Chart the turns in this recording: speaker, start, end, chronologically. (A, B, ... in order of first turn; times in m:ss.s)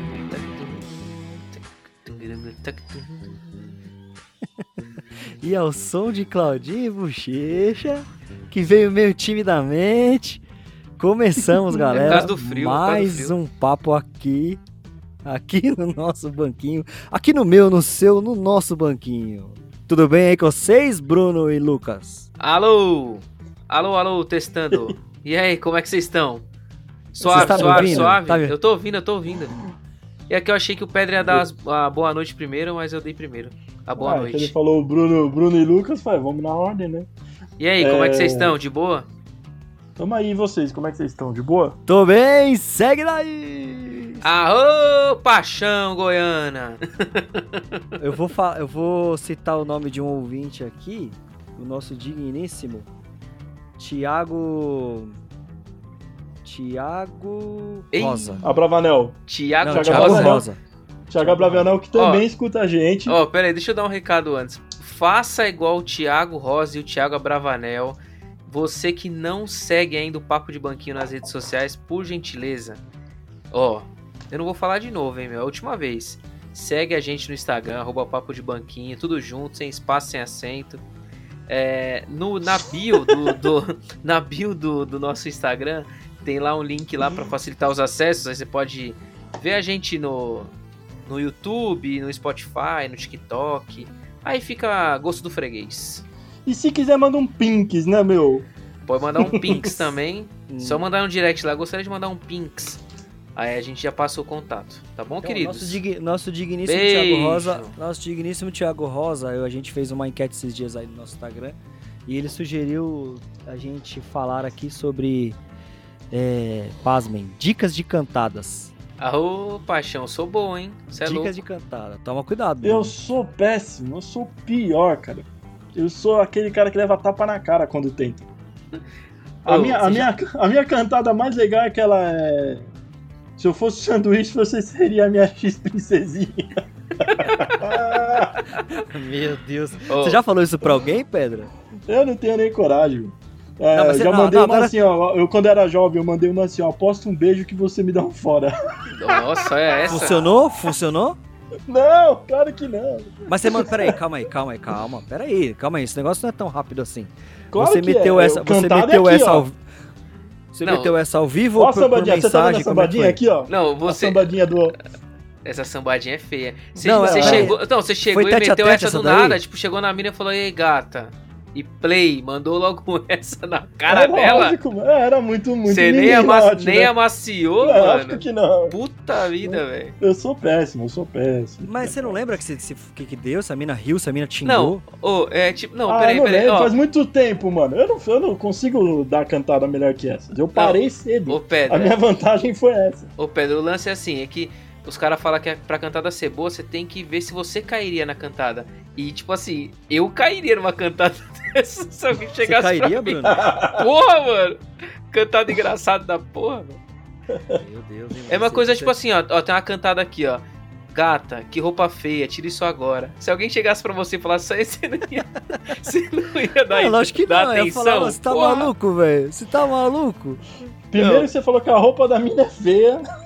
0:00.3-0:03.8 A
0:04.6-0:10.4 B
0:11.0-0:14.6 B
0:11.8-0:12.2 C
0:11.9-0:13.3 A
0:15.2-0:22.3 B
0:22.4-0:26.4 A
0:27.1-0:29.6 A
0:27.2-0:28.2 C
0:27.3-0:28.5 B
0:30.3-0:34.5 A
0:34.0-0:37.1 C
0:37.6-0:39.1 A
0:37.8-0:38.6 C
0:40.0-0:41.8 C
0:41.9-0:44.2 B
0:44.2-0:47.8 A
0:48.0-0:52.9 B
0:53.8-0:55.2 B
0:56.4-0:58.4 B
0:57.9-0:58.6 A
0:58.4-1:00.4 C
0:59.3-1:00.4 A
0:59.6-1:00.6 B
1:01.1-1:03.2 C
1:01.2-1:01.7 B
1:01.9-1:02.2 A
1:03.0-1:12.8 A
1:13.5-1:20.8 A
1:21.5-1:30.5 A
1:31.0-1:36.0 A
1:36.4-1:38.4 C
1:38.8-1:42.8 A
1:39.2-1:39.8 C
1:40.5-1:40.8 B
1:43.4-1:45.8 A
1:45.2-1:55.4 B
1:46.6-1:47.7 A
1:56.1-1:58.7 B
1:59.0-2:01.4 A
2:01.0-2:02.9 B
2:02.6-2:08.3 C
2:09.4-2:10.1 A
2:09.4-2:12.7 C
2:13.4-2:18.4 C
2:17.0-2:17.6 A
2:18.7-2:21.5 B
2:19.9-2:20.2 A
2:21.9-2:29.2 C
2:23.7-2:24.7 B
2:28.9-2:30.3 A
2:29.9-2:31.2 B
2:31.7-2:34.0 C
2:33.3-2:39.6 B
2:37.5-2:39.4 C
2:40.5-2:43.2 B
2:40.6-2:40.9 A
2:41.6-2:44.8 C
2:43.5-2:44.3 A
2:45.4-2:54.6 A
2:46.8-2:49.4 B
2:47.0-2:47.5 C
2:53.9-2:56.9 C
2:55.7-2:59.9 A
2:57.6-2:58.7 C
2:59.4-3:02.2 C
3:01.6-3:04.8 B
3:04.4-3:06.7 A
3:05.9-3:13.1 C
3:10.5-3:11.9 A
3:13.2-3:26.8 A
3:22.4-3:23.5 B
3:23.3-3:23.8 C
3:27.5-3:28.9 B
3:28.3-3:38.7 A
3:36.7-3:40.4 B
3:40.9-3:43.0 C
3:41.0-3:41.3 A